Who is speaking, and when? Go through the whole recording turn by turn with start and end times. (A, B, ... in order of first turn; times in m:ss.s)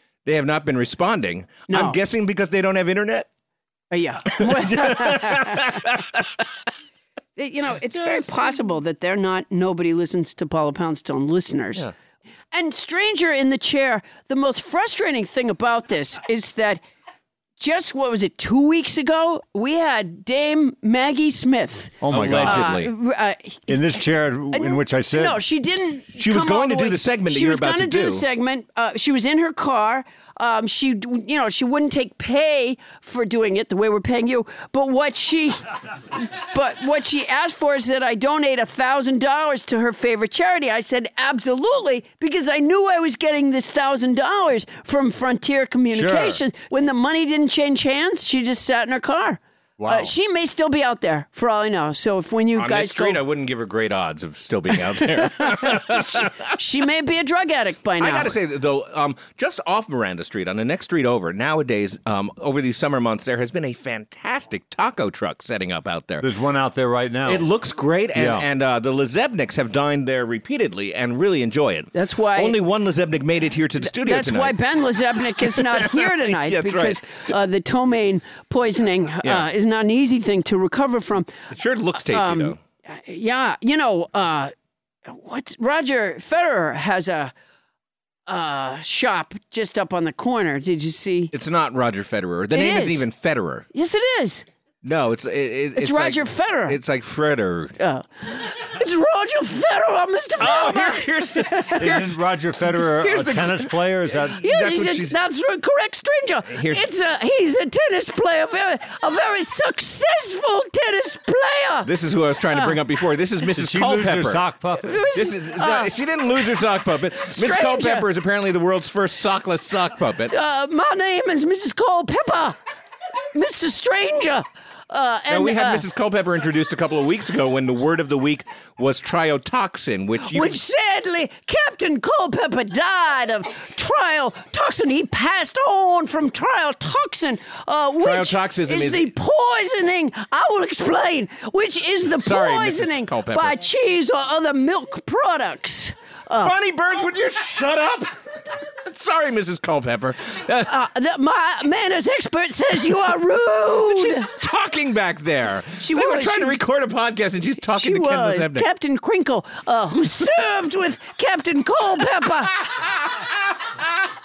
0:00.2-0:03.3 A
0:01.7-0:02.0 B
0:03.9-0:05.8 B
0:04.3-0:06.2 A
0:07.4-0:11.8 B
0:12.5-0:16.8 B
0:17.6-0:35.6 B
0:22.0-0:22.8 C
0:22.1-0:22.9 A
0:23.7-0:25.4 C
0:26.1-0:28.2 A
0:36.2-0:53.2 B
0:45.9-0:46.4 C
0:49.8-0:50.1 C
0:52.5-0:56.5 A
0:56.5-0:58.3 B
0:58.0-1:06.2 A
1:06.2-1:07.5 C
1:07.2-1:14.6 A
1:08.1-1:08.4 C
1:11.9-1:12.6 B
1:13.8-1:21.3 B
1:15.5-1:17.0 A
1:21.5-1:22.6 A
1:22.0-1:24.5 B
1:25.0-1:27.3 B
1:28.3-1:31.3 B
1:31.3-1:33.7 A
1:32.5-1:33.0 B
1:33.7-1:34.4 B
1:34.8-1:37.8 A
1:35.8-1:36.8 B
1:37.8-1:42.0 B
1:40.4-1:42.1 A
1:41.8-1:44.4 C
1:42.9-1:45.2 A
1:44.4-1:51.9 B
1:46.5-1:46.8 A
1:51.8-1:54.4 A
1:53.5-1:55.0 C
1:54.8-1:55.9 B
1:55.1-2:00.3 A
1:57.3-1:58.0 B
2:00.3-2:02.6 B
2:03.3-2:05.8 B
2:05.3-2:10.6 A
2:10.3-2:26.5 B
2:18.0-2:19.1 A
2:22.2-2:23.6 A
2:26.4-2:28.1 A
2:28.8-2:30.7 A
2:30.6-2:34.2 B
2:33.9-2:38.7 A
2:35.8-2:36.6 B
2:37.8-2:42.6 B